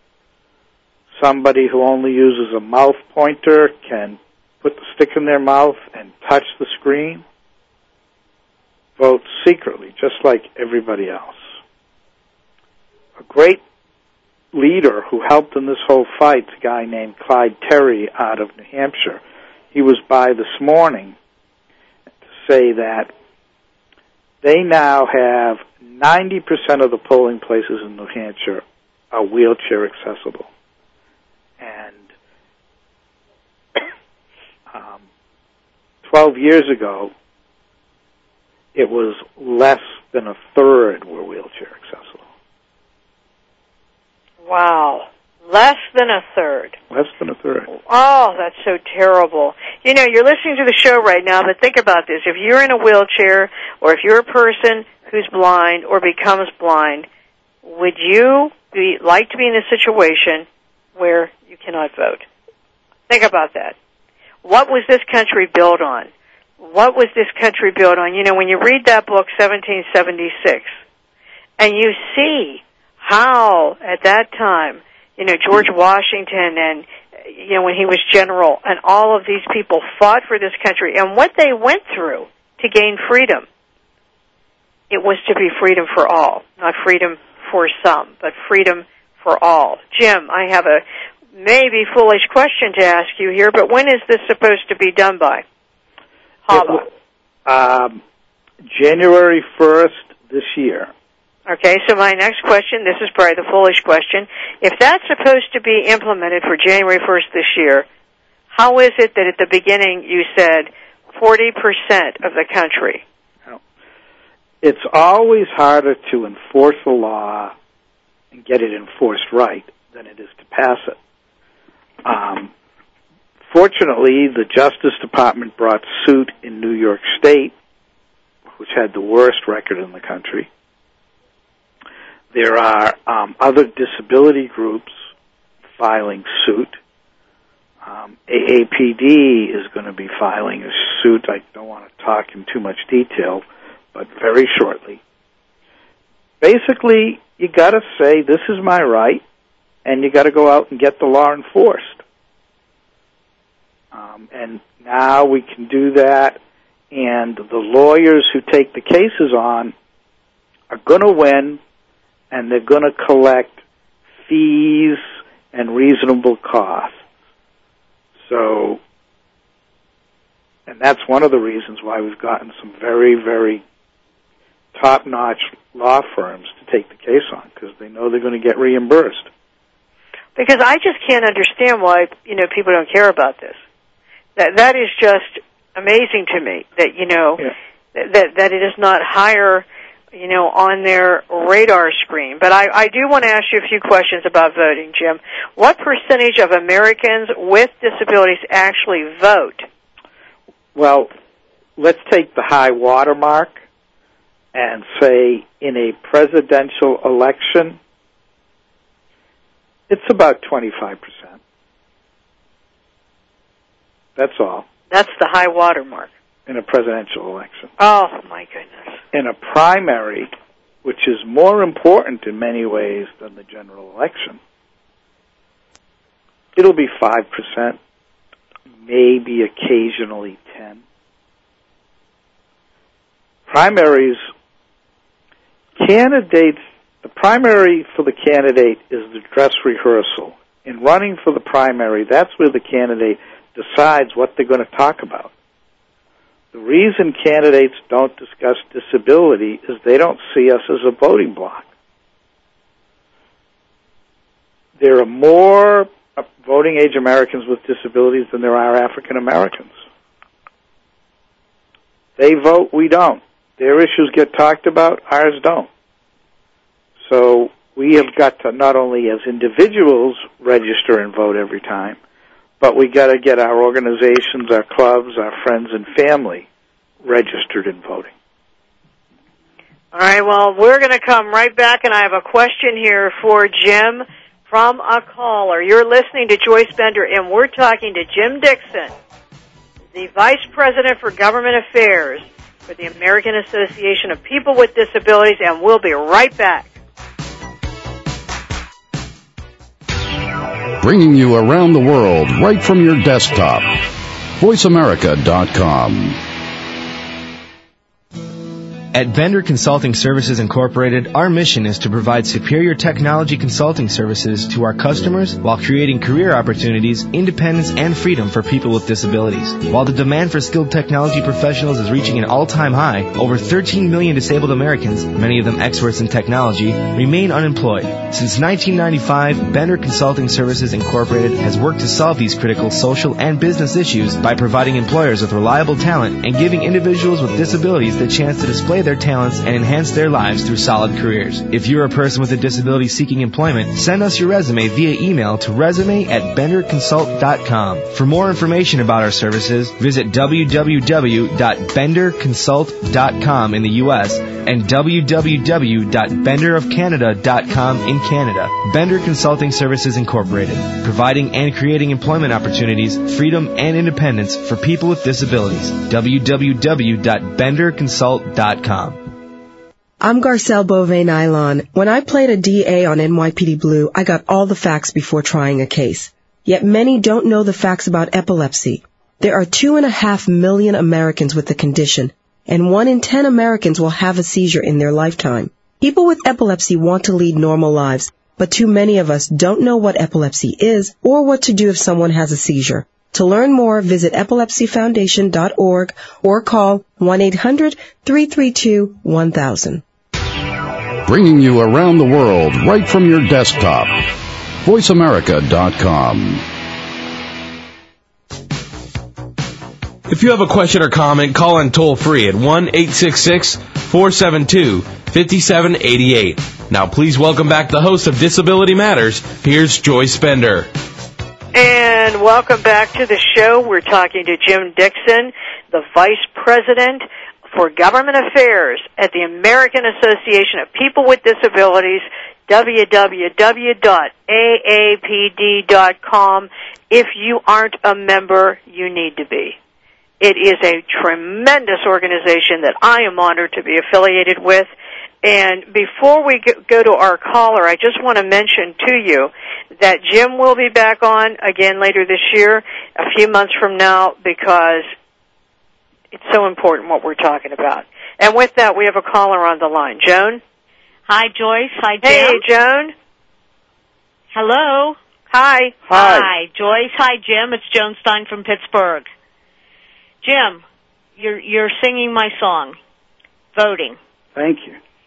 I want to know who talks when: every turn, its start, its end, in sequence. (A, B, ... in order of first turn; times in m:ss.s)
0:01.2-0:07.2 A
0:09.0-0:11.4 A
0:13.2-0:13.6 A
0:14.5-0:19.2 A
0:19.7-0:21.1 A
0:22.4-0:23.1 A
0:24.4-0:30.5 A
0:31.6-0:32.0 A
0:34.7-0:35.0 A
0:36.0-0:37.1 A
0:38.7-0:42.2 A
0:44.4-0:46.8 B
0:46.9-0:47.7 A
0:47.7-0:57.0 B
0:57.6-1:02.2 B
1:03.1-1:03.7 B
1:04.4-1:06.1 B
1:06.6-1:10.7 B
1:11.6-1:23.4 B
1:24.9-1:30.8 B
1:31.4-1:35.4 B
1:36.5-1:36.8 B
1:36.5-1:36.8 A
1:37.4-1:38.0 A
1:38.7-1:40.9 A
1:41.5-1:47.8 B
1:48.5-1:53.0 B
1:54.6-1:57.5 A
1:58.3-2:01.0 A
2:02.0-2:02.5 A
2:03.5-2:07.5 A
2:08.6-2:10.5 A
2:12.3-2:14.9 A
2:15.8-2:16.8 A
2:17.8-2:25.0 A
2:26.4-2:29.2 A
2:29.8-2:32.0 A
2:33.9-2:36.4 A
2:36.9-2:39.7 A
2:40.7-2:41.6 A
2:42.3-2:43.6 A
2:44.2-2:45.0 A
2:45.5-2:47.0 A
2:48.2-2:48.8 A
2:50.7-2:53.6 A
2:54.7-2:59.3 A
3:00.4-3:03.6 B
3:04.4-3:19.6 B
3:20.7-3:21.1 A
3:21.8-3:23.6 A
3:24.5-3:27.8 A
3:29.9-3:31.3 A
3:34.2-3:34.6 A
3:34.9-3:36.1 B
3:36.5-3:37.7 A
3:37.8-3:39.0 B
3:39.1-3:40.3 A
3:40.8-3:44.4 A
3:46.5-3:47.8 A
3:48.8-3:50.8 A
3:53.5-3:54.3 A
3:55.8-4:05.3 A
4:06.5-4:11.7 A
4:14.8-4:19.7 A
4:22.2-4:25.7 A
4:27.1-4:32.0 A
4:32.6-4:36.4 A
4:37.0-4:38.1 A
4:39.9-4:48.9 B
4:49.9-4:56.7 B
5:00.8-5:03.8 C
5:04.4-5:06.2 C
5:08.9-6:09.0 D
6:10.0-6:39.8 E
6:41.0-6:44.0 C
6:44.6-6:46.4 C
6:50.1-7:00.7 F
7:01.5-7:19.6 B
7:20.2-7:24.7 B
7:25.2-7:34.9 B
7:36.1-7:40.4 B
7:41.1-7:42.4 G
7:42.0-7:42.9 B
7:44.3-7:45.0 G
7:45.3-7:46.2 B
7:45.9-7:46.2 A
7:45.9-7:49.0 G
7:50.2-7:50.6 G
7:51.2-7:52.8 G
7:53.5-7:54.0 G
7:54.4-7:54.8 A